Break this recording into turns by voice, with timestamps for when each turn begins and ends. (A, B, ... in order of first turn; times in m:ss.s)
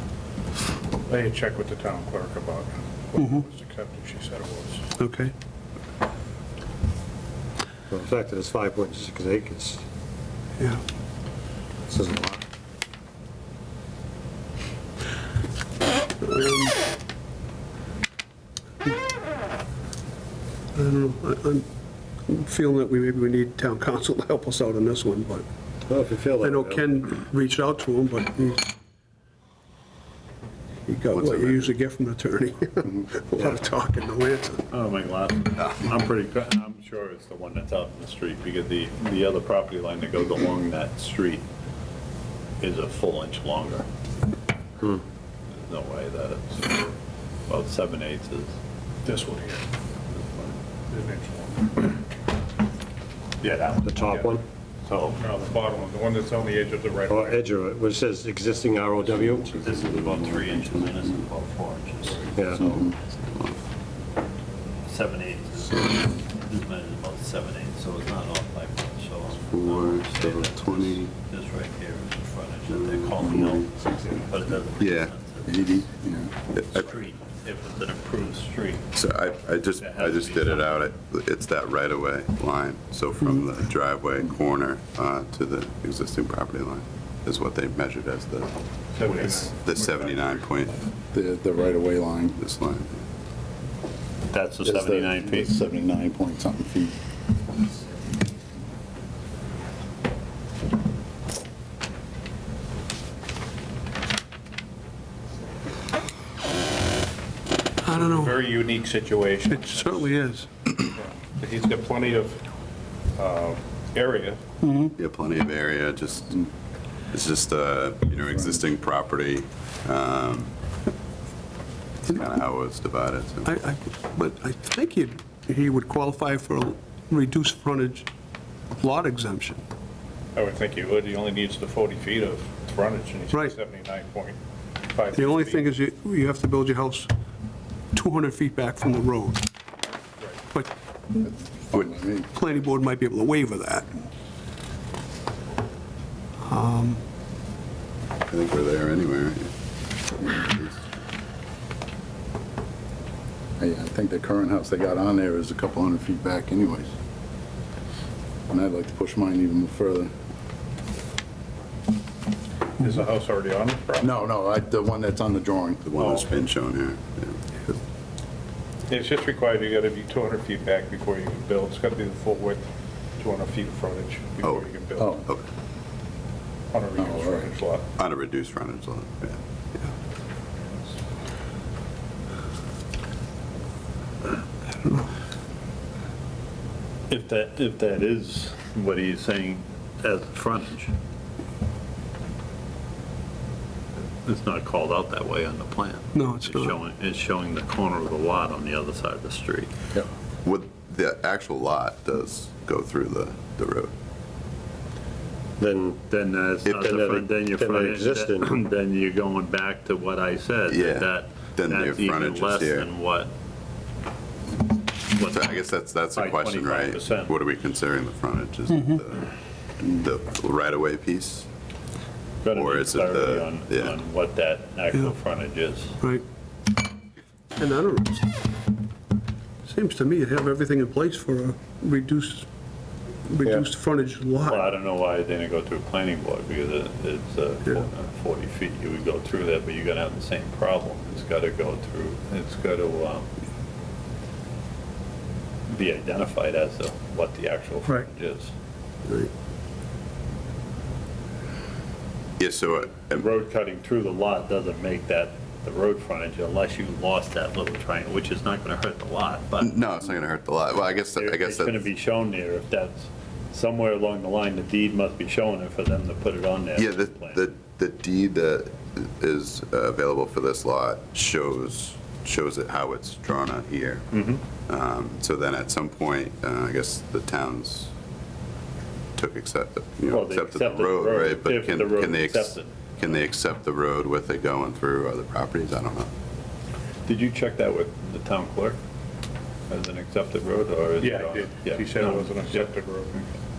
0:01.1-0:04.9 A
0:05.0-0:05.3 B
0:07.9-0:09.8 C
0:11.9-0:12.4 C
0:16.2-0:16.8 B
0:20.8-0:21.7 B
0:22.3-0:25.5 B
0:25.9-0:26.9 C
0:26.4-0:28.7 B
0:30.9-0:34.6 B
0:34.7-0:41.5 D
0:42.6-0:43.9 D
0:45.6-0:46.9 D
0:47.5-0:48.5 D
0:49.0-0:49.6 A
0:50.1-0:50.6 D
0:50.9-0:51.9 A
0:53.4-0:55.2 D
0:53.8-0:54.4 C
0:55.2-0:57.5 A
0:57.1-0:59.6 C
0:59.5-1:03.2 D
0:59.7-1:00.9 E
1:02.4-1:02.7 C
1:03.3-1:03.6 E
1:04.9-1:15.8 D
1:09.4-1:11.1 E
1:12.7-1:14.2 E
1:14.8-1:15.1 E
1:15.4-1:16.3 F
1:16.6-1:16.9 E
1:16.7-1:20.8 D
1:18.9-1:30.8 E
1:29.0-1:30.3 A
1:31.1-1:32.4 F
1:32.4-1:33.0 E
1:34.3-1:35.5 D
1:34.6-1:37.0 F
1:47.8-1:48.5 B
1:47.9-1:50.1 A
1:49.5-1:50.7 B
1:51.0-1:52.4 A
1:53.2-1:54.4 A
1:54.6-1:54.9 B
1:55.0-1:56.5 E
1:57.1-2:00.5 E
2:02.0-2:03.5 E
2:03.5-2:08.1 B
2:08.8-2:09.6 B
2:10.4-2:14.4 A
2:14.9-2:15.7 A
2:15.1-2:17.1 B
2:17.9-2:19.5 B
2:21.3-2:22.3 F
2:22.3-2:23.9 B
2:26.4-2:27.0 B
2:28.3-2:29.5 E
2:30.2-2:30.8 E
2:33.6-2:36.9 F
2:38.5-2:40.1 F
2:42.8-2:44.1 A
2:44.0-2:45.9 F
2:45.8-2:47.4 E
2:46.0-2:46.3 A
2:48.9-2:52.7 A
2:53.2-2:55.2 A
2:55.0-2:55.2 F
2:56.7-2:57.9 A
2:57.0-2:57.5 F
2:58.0-2:59.4 E
3:04.8-3:05.1 B
3:07.1-3:11.0 D
3:14.2-3:19.7 D
3:16.2-3:16.7 B
3:20.4-3:23.9 E
3:25.6-3:26.0 C
3:26.1-3:33.3 D
3:26.6-3:28.6 C
3:30.7-3:32.9 E
3:35.1-3:35.6 D
3:35.3-3:41.5 E
3:36.2-3:37.3 D
3:42.4-3:46.0 D
3:42.5-3:44.0 E
3:47.6-3:48.4 B
3:49.6-3:52.5 B
3:53.3-3:54.7 B
3:54.4-4:03.3 D
4:05.7-4:08.5 D
4:12.4-4:13.2 E
4:13.0-4:19.7 D
4:19.6-4:21.9 E
4:21.2-4:27.4 D
4:26.8-4:34.1 E
4:34.1-4:34.4 D
4:34.7-4:37.9 E
4:39.2-4:46.1 E
4:40.1-4:42.8 D
4:47.1-4:48.8 D
4:49.7-4:52.7 D
4:51.0-4:53.4 A